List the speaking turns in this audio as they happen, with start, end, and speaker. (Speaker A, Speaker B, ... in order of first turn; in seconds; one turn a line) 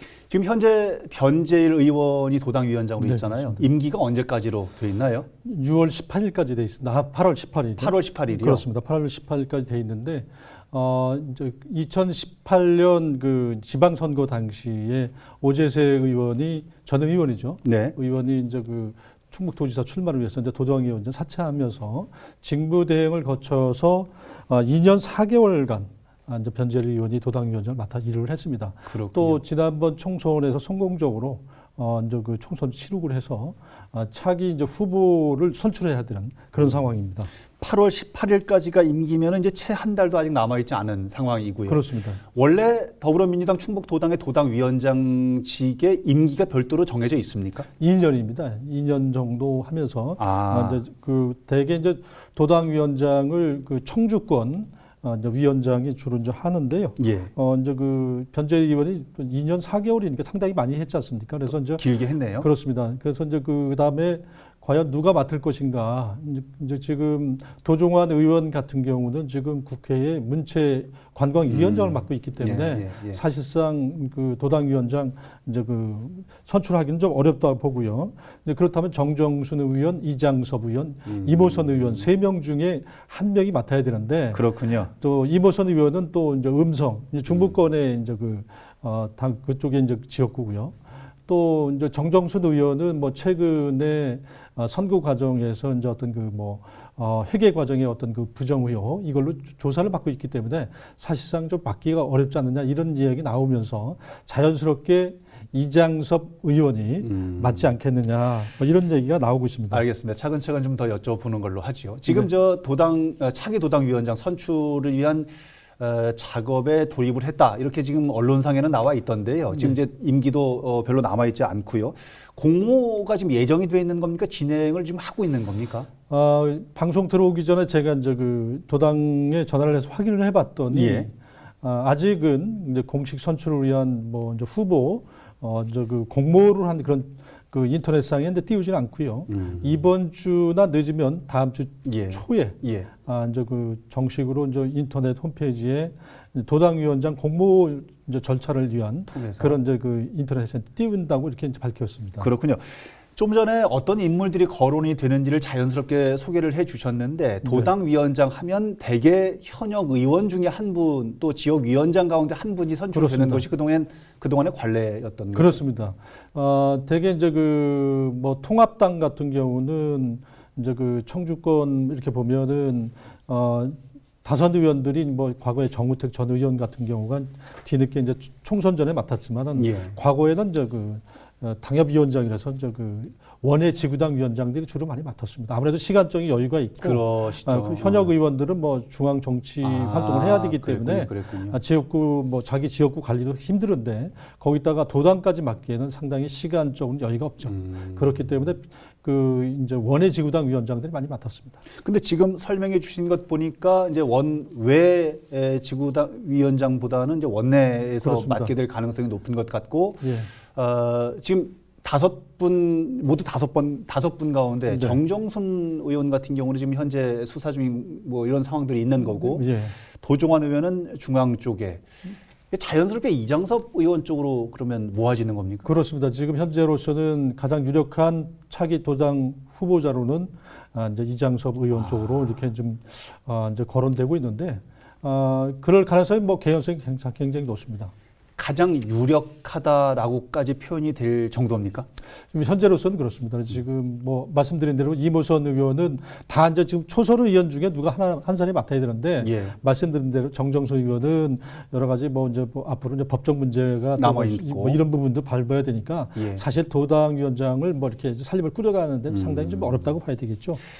Speaker A: 0.3-5.3
Speaker B: 3.0-3.6
Speaker B: 5.5-37.3
Speaker A: 7.8-8.6
Speaker A: 17.6-18.0
Speaker A: 28.9-29.4
Speaker A: 37.6-47.7
Speaker B: 41.7-42.2
Speaker B: 47.8-61.8
Speaker A: 50.2-50.8
Speaker A: 57.0-57.3
Speaker A: 61.6-62.5
Speaker B: 62.4-109.8
Speaker A: 71.5-73.2
Speaker A: 81.1-82.0
Speaker A: 84.3-84.9
Speaker A: 107.0-107.7
Speaker A: 109.7-125.9
Speaker B: 126.1-152.3
Speaker A: 130.7-131.1
Speaker A: 139.3-139.8
Speaker A: 141.8-142.9
Speaker A: 149.1-149.6
Speaker A: 152.2-165.6
Speaker B: 157.4-157.7
Speaker B: 162.9-163.4
Speaker B: 165.3-201.6
Speaker A: 179.6-179.9
Speaker A: 186.8-188.1
Speaker A: 189.6-191.6
Speaker A: 197.4-198.0
Speaker A: 201.8-210.0
Speaker B: 208.0-208.5
Speaker B: 210.0-210.3
Speaker A: 210.5-219.4
Speaker B: 214.7-215.0
Speaker B: 219.2-219.8
Speaker A: 220.0-221.9
Speaker A: 222.5-225.7
Speaker B: 225.7-237.9
Speaker A: 231.7-232.3
Speaker A: 238.4-241.9
Speaker B: 242.3-260.6
Speaker A: 249.2-249.6
Speaker A: 254.0-254.8
Speaker A: 256.1-256.4
Speaker A: 259.1-259.9